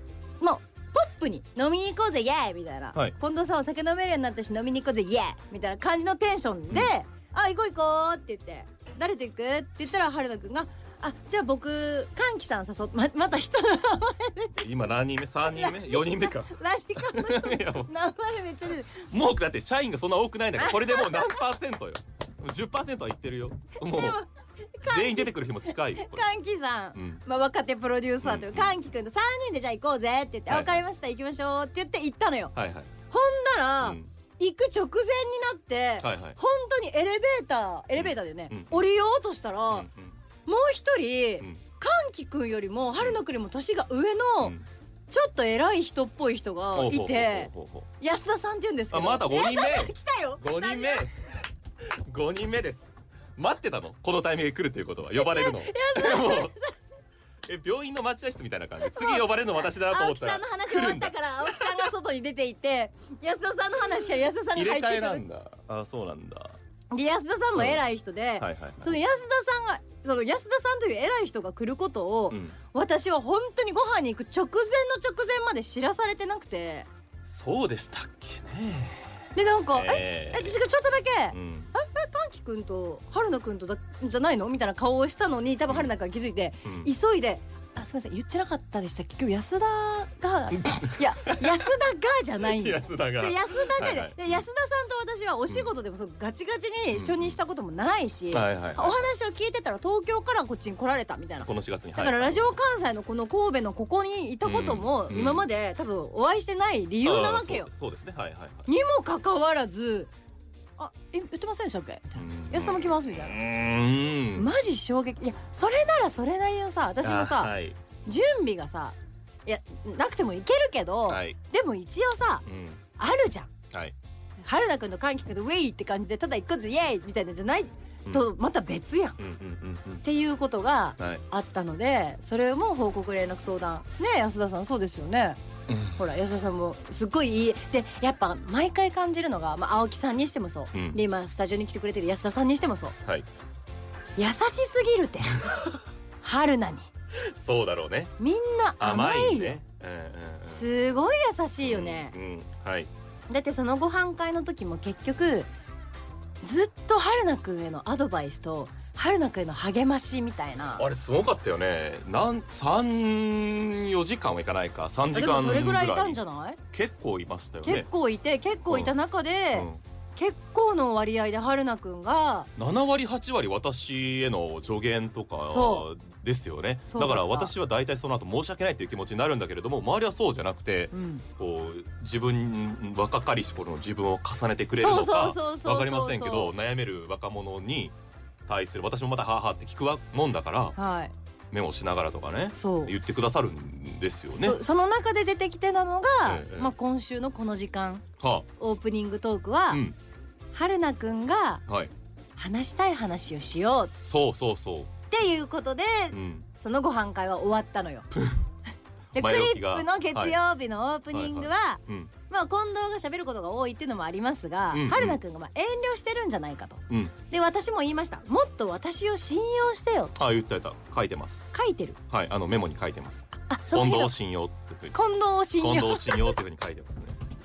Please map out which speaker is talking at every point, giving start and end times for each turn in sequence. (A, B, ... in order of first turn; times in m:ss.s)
0:00.4-0:14.6 A
0:14.6-0:17.9 B
0:15.5-0:19.1 A
0:18.9-0:24.2 B
0:20.6-0:21.3 A
0:23.8-0:32.5 A
0:24.8-0:26.3 B
0:26.9-0:27.2 B
0:28.2-0:28.7 B
0:30.5-0:30.8 B
0:32.5-0:32.9 B
0:33.1-0:39.9 A
0:33.8-0:34.1 B
0:36.0-0:36.4 B
0:38.0-0:38.8 B
0:39.7-0:40.2 B
0:40.4-0:44.6 A
0:45.1-0:51.0 A
0:46.7-0:47.9 B
0:48.9-0:56.5 B
0:55.1-0:56.7 A
0:57.4-1:01.9 B
0:58.8-1:05.2 A
1:04.5-1:06.6 B
1:06.9-1:16.9 A
1:07.6-1:07.8 B
1:08.4-1:09.0 B
1:12.3-1:12.6 B
1:17.2-1:19.2 B
1:19.3-1:47.7 A
1:19.7-1:20.6 B
1:21.3-1:21.7 B
1:26.6-1:26.9 B
1:30.5-1:31.6 B
1:32.4-1:34.4 B
1:36.9-1:37.4 B
1:38.3-1:39.1 B
1:41.4-1:42.6 B
1:44.4-1:45.4 B
1:47.0-1:48.7 B
1:48.6-1:50.1 A
1:50.8-1:53.4 A
1:52.2-1:54.5 B
1:54.3-2:02.4 A
1:57.0-1:57.8 B
2:01.1-2:01.4 B
2:02.4-2:02.8 B
2:03.0-2:03.5 A
2:04.4-2:09.2 A
2:09.2-2:10.0 B
2:10.0-2:15.4 A
2:11.0-2:11.2 B
2:15.7-2:16.0 B
2:15.9-2:23.0 A
2:20.7-2:21.0 B
2:24.2-2:25.4 A
2:25.4-2:25.8 B
2:26.2-2:26.9 A
2:27.1-2:28.1 B
2:28.2-2:29.6 A
2:28.8-2:30.7 B
2:30.4-2:32.1 A
2:31.6-2:32.9 B
2:33.3-2:35.5 A
2:36.4-2:40.8 A
2:40.8-2:46.2 B
2:45.1-2:46.6 A
2:46.7-2:47.9 B
2:47.6-2:52.5 A
2:48.7-2:48.9 B
2:49.5-2:49.8 B
2:52.6-3:10.8 B
2:55.5-2:55.9 A
2:56.9-2:57.5 A
3:00.9-3:01.2 A
3:04.8-3:06.5 A
3:10.8-3:11.1 A
3:11.5-3:14.6 B
3:12.5-3:12.9 A
3:14.3-3:18.0 A
3:16.2-3:16.7 B
3:18.2-3:18.5 B
3:18.6-3:19.8 A
3:19.7-3:20.0 B
3:20.5-3:21.6 A
3:21.7-3:21.9 B
3:22.4-3:24.0 A
3:24.0-3:24.9 B
3:25.1-3:28.1 A
3:26.1-3:26.4 B
3:28.1-3:28.4 B
3:29.1-3:30.4 B
3:29.1-3:40.1 A
3:31.1-3:32.1 B
3:34.7-3:35.2 B
3:36.9-3:37.1 B
3:40.1-3:41.4 B
3:41.5-3:42.0 A
3:42.1-3:45.0 B
3:43.5-3:44.1 A
3:44.9-3:46.4 A
3:45.6-3:47.2 B